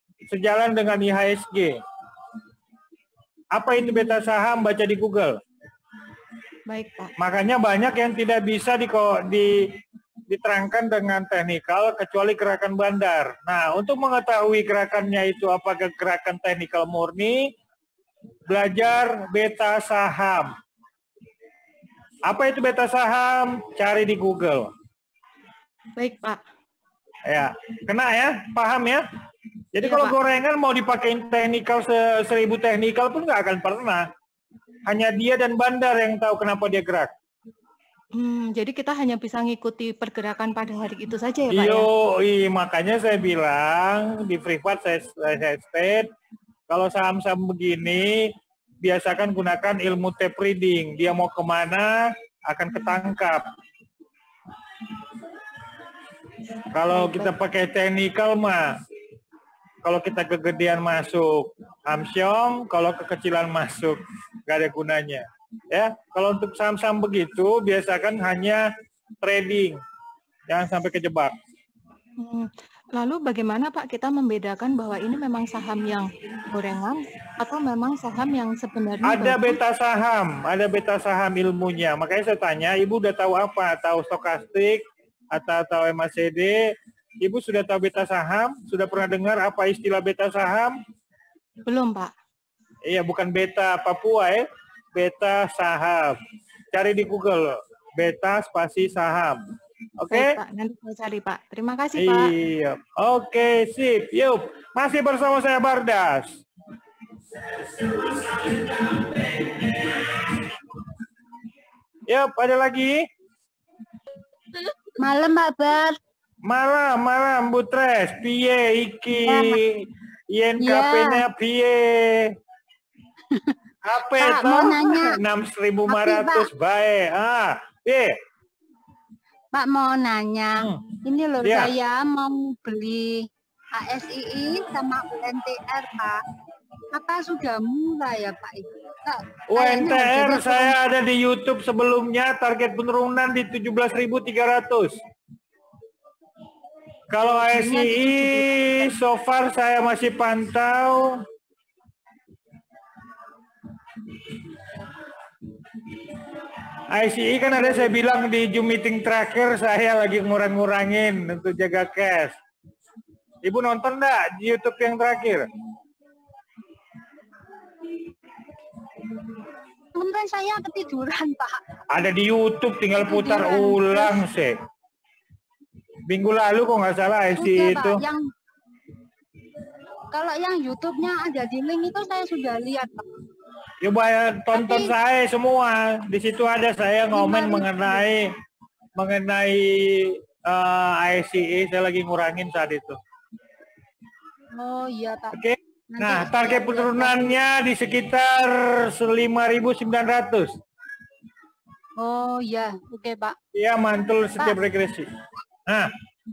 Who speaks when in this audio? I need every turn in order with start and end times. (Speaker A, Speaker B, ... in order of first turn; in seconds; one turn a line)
Speaker A: 0.3-1.8
Speaker A: 3.5-5.4
Speaker B: 6.7-7.1
Speaker A: 7.2-9.5
Speaker A: 10.3-17.5
Speaker A: 18.5-20.5
Speaker A: 22.3-24.7
Speaker B: 26.0-26.4
Speaker A: 27.3-29.0
Speaker A: 29.7-34.1
Speaker B: 29.8-30.1
Speaker A: 34.9-37.1
Speaker B: 38.1-41.9
Speaker A: 41.5-46.1
Speaker A: 46.7-48.3
Speaker A: 48.8-53.4
Speaker A: 56.7-58.7
Speaker B: 56.9-57.3
Speaker A: 59.8-68.6
Speaker A: 69.2-69.8
Speaker A: 70.5-71.3
Speaker B: 72.2-79.6
Speaker A: 79.0-84.8
Speaker A: 85.3-90.8
Speaker B: 91.7-92.1
Speaker A: 92.9-96.2
Speaker A: 96.7-99.4
Speaker A: 100.0-100.3
Speaker B: 100.1-102.3
Speaker A: 102.0-106.4
Speaker A: 112.1-113.0
Speaker C: 115.0-116.0
Speaker A: 116.5-122.3
Speaker C: 119.2-119.6
Speaker C: 120.6-121.2
Speaker C: 123.3-123.5
Speaker A: 123.8-128.2
Speaker C: 124.2-125.2
Speaker C: 125.9-126.5
Speaker C: 129.5-136.2
Speaker A: 130.6-130.8
Speaker A: 131.4-131.7
Speaker C: 136.9-140.8
Speaker A: 139.5-145.0
Speaker A: 147.1-151.2
Speaker C: 147.2-148.9
Speaker A: 156.9-162.3
Speaker A: 163.4-165.5
Speaker C: 169.9-171.6
Speaker A: 171.9-174.5
Speaker C: 172.9-174.2
Speaker A: 176.1-178.0
Speaker C: 177.3-178.2
Speaker C: 180.1-183.0
Speaker A: 183.8-188.3
Speaker C: 184.5-184.9
Speaker C: 187.1-188.0
Speaker A: 189.0-193.0
Speaker C: 194.5-195.3
Speaker A: 195.3-200.5
Speaker C: 195.9-197.3
Speaker C: 202.0-203.3
Speaker A: 203.5-205.1